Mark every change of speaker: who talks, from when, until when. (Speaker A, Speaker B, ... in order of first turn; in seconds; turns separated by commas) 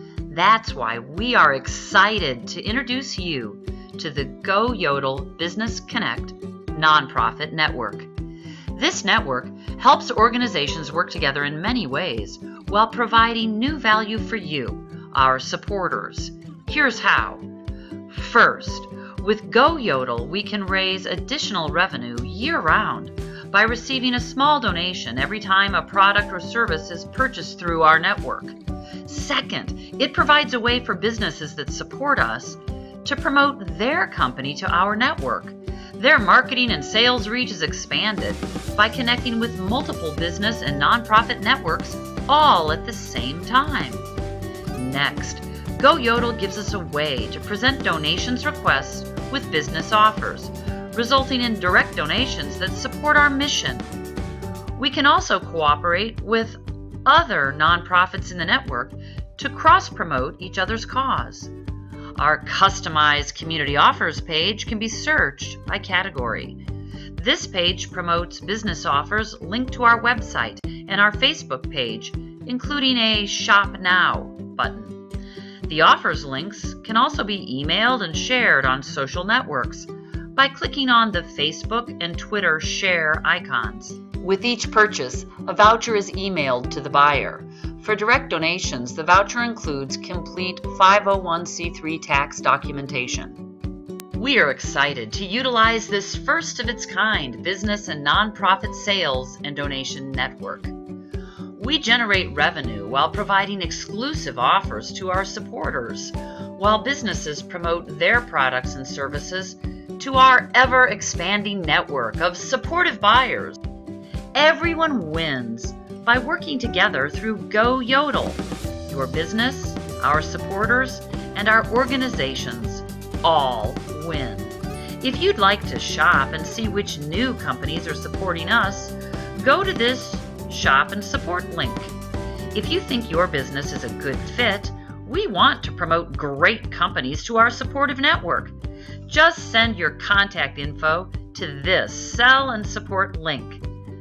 Speaker A: 0.3-8.1, Speaker A: 8.7-17.5, Speaker A: 18.1-44.1, Speaker A: 44.7-53.9, Speaker A: 54.8-61.5, Speaker A: 62.2-66.6, Speaker A: 67.2-75.0, Speaker A: 75.7-93.4, Speaker A: 94.2-100.7, Speaker A: 101.6-113.6, Speaker A: 114.3-131.9, Speaker A: 132.5-138.6, Speaker A: 139.1-143.6